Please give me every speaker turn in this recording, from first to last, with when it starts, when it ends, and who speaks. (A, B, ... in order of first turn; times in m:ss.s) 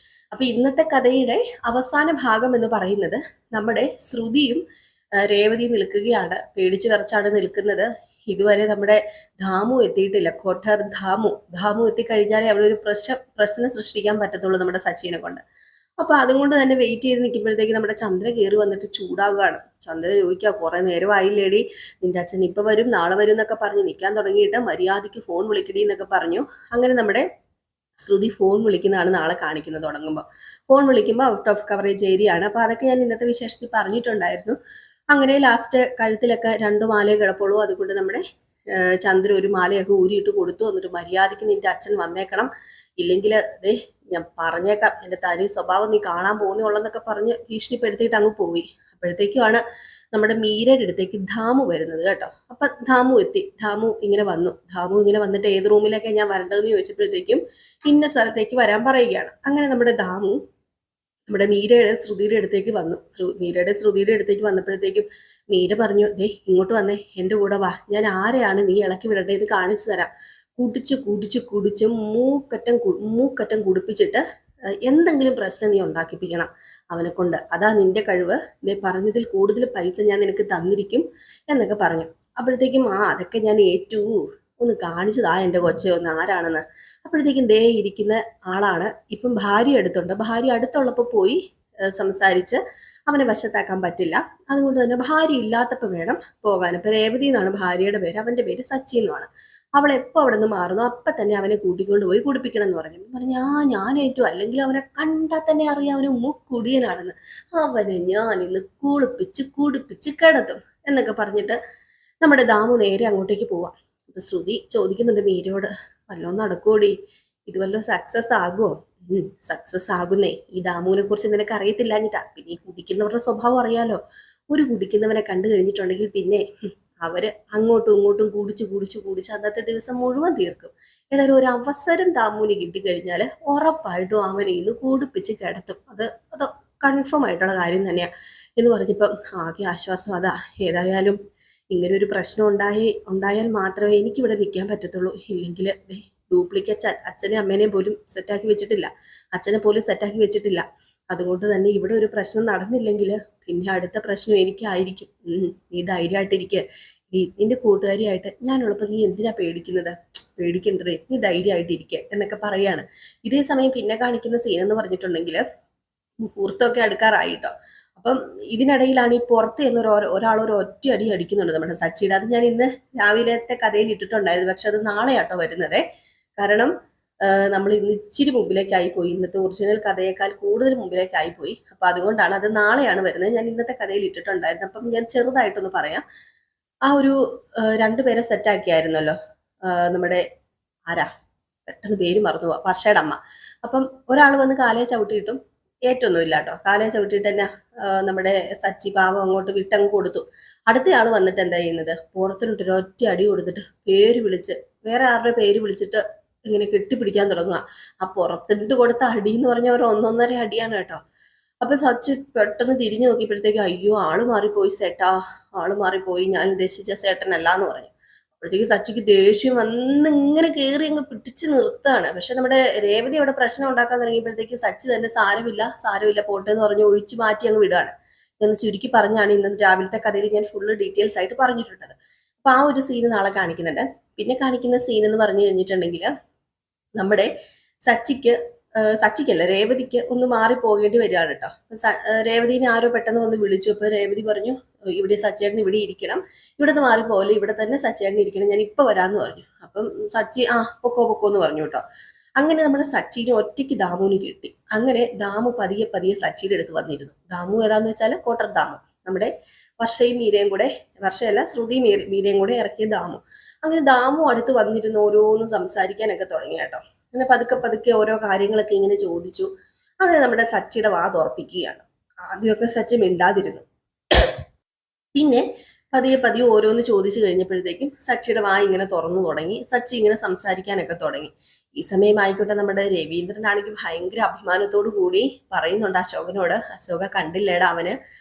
0:00.3-0:04.6 A
0:05.2-0:15.4 A
0:16.0-0:27.3 A
0:28.0-0:34.6 A
0:35.1-0:38.2 A
0:38.8-0:49.6 A
0:50.1-1:00.4 A
1:01.3-1:14.2 A
1:14.9-1:31.4 A
1:31.9-1:51.6 A
1:52.2-1:57.0 A
1:57.5-2:04.0 A
2:04.5-2:06.4 A
2:07.0-2:21.2 A
2:21.7-2:45.4 A
2:46.2-2:55.8 A
2:56.4-2:56.7 A
2:57.3-3:06.0 A
3:06.9-3:09.2 A
3:09.7-3:10.2 A
3:11.7-3:31.0 A
3:31.6-3:56.1 A
3:57.0-3:57.3 A
3:57.9-4:11.8 A
4:12.4-4:29.5 A
4:30.0-4:33.6 A
4:35.2-4:48.0 A